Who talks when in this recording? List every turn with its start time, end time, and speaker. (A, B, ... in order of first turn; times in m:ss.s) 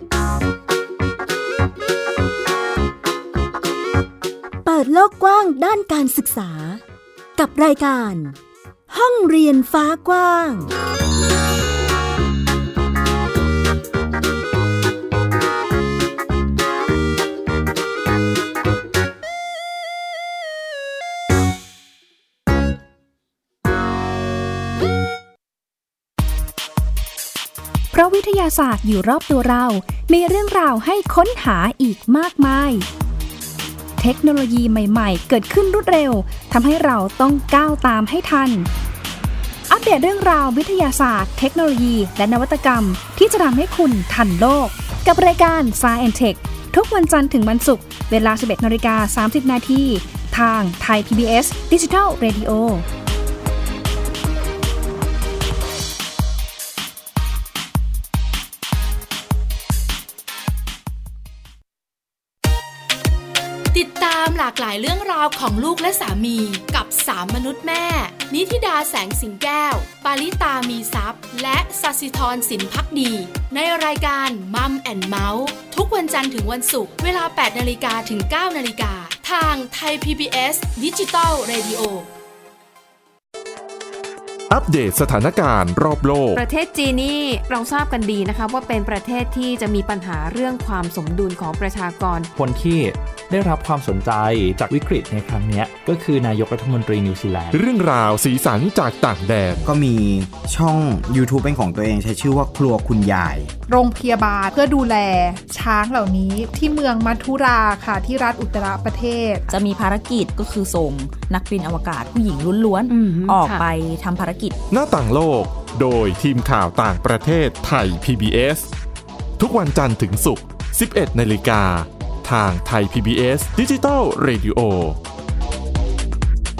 0:04.6-0:06.8 A
0:07.4-0:08.4 A
0:08.9-0:10.7 A
0:27.9-0:32.8 B
0:34.0-0:38.7 B
0:39.7-0:52.8 B
1:03.7-1:22.1 C
1:24.5-1:26.4 D
1:26.3-1:32.3 E
1:32.3-1:37.6 F
1:37.5-1:39.6 D
1:39.6-1:43.5 G
1:43.7-1:49.4 H
1:49.5-1:54.6 I
1:52.9-1:53.6 E
1:54.7-1:58.7 D
1:59.4-2:05.0 D